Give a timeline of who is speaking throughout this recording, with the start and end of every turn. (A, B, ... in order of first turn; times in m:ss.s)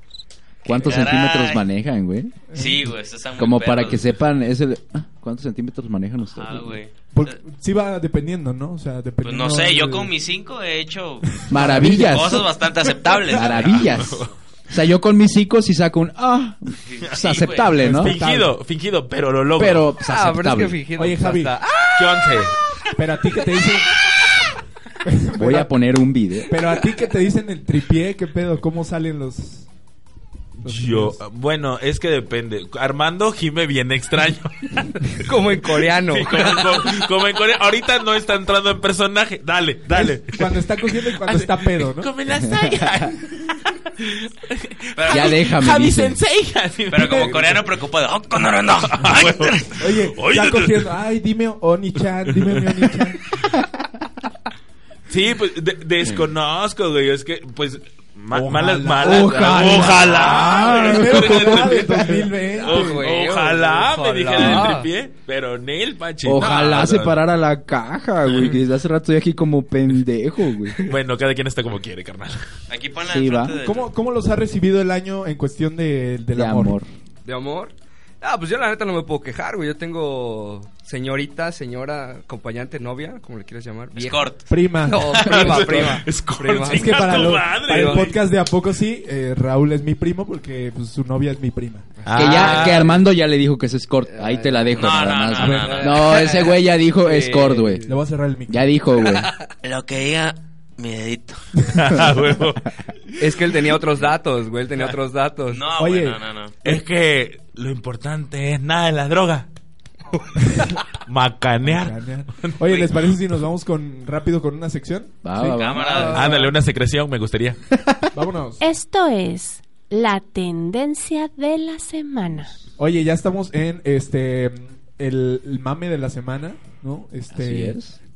0:00.6-0:02.4 A
0:00.7-0:01.6 B
0:02.5-0:02.9 C
0:02.5-0:04.0 B
0:03.4-0:06.8 A
0:06.3-0:06.9 B
0:07.1-0:10.1 C
0:09.2-0:13.8 B
0:11.4-0:12.5 C
0:11.5-0:12.5 A
0:13.2-0:18.2 A
0:13.3-0:14.3 D
0:16.8-0:17.7 B
0:17.0-0:19.9 D
0:17.8-0:18.6 C
0:19.6-0:20.8 A
0:20.0-0:22.5 E
0:21.0-0:21.5 C
0:22.0-0:22.6 D
0:23.0-0:24.0 C
0:25.0-0:25.7 C
0:25.4-0:26.6 A
0:26.5-0:29.7 C
0:30.6-0:31.2 C
0:30.6-0:35.2 D
0:35.2-0:36.8 E
0:35.9-0:47.6 D
0:39.9-0:42.1 C
0:42.4-0:43.1 A
0:44.9-0:45.3 B
0:45.1-0:46.2 A
0:46.9-0:49.7 B
0:48.9-0:50.9 D
0:49.8-0:53.2 C
0:52.3-0:53.0 D
0:55.1-1:07.2 D
0:58.3-1:03.1 C
0:59.0-1:02.3 A
1:02.6-1:04.9 E
1:06.2-1:10.8 A
1:10.8-1:12.4 D
1:12.7-1:13.9 B
1:13.0-1:13.6 A
1:13.6-1:16.7 C
1:16.3-1:16.9 A
1:17.2-1:24.3 E
1:23.9-1:24.4 B
1:24.5-1:25.9 C
1:24.8-1:28.1 E
1:25.0-1:28.2 D
1:26.6-1:31.9 C
1:32.0-1:33.0 E
1:32.0-1:33.0 D
1:32.1-1:37.8 A
1:32.2-1:32.8 B
1:34.1-1:38.0 E
1:34.7-1:36.2 B
1:35.4-1:35.7 C
1:37.9-1:38.7 C
1:38.5-1:39.3 A
1:39.1-1:39.4 E
1:39.6-1:41.6 B
1:41.6-1:42.7 D
1:43.2-1:45.6 E
1:45.5-1:46.5 B
1:45.7-1:46.2 C
1:46.6-1:49.5 D
1:51.0-1:53.1 D
1:51.6-1:56.4 C
1:55.2-1:56.1 A
1:55.4-1:56.4 B
1:55.8-1:56.5 E
1:56.0-1:57.6 D
1:58.1-1:58.6 C
1:58.6-2:02.6 F
2:02.8-2:07.8 C
2:07.3-2:08.0 A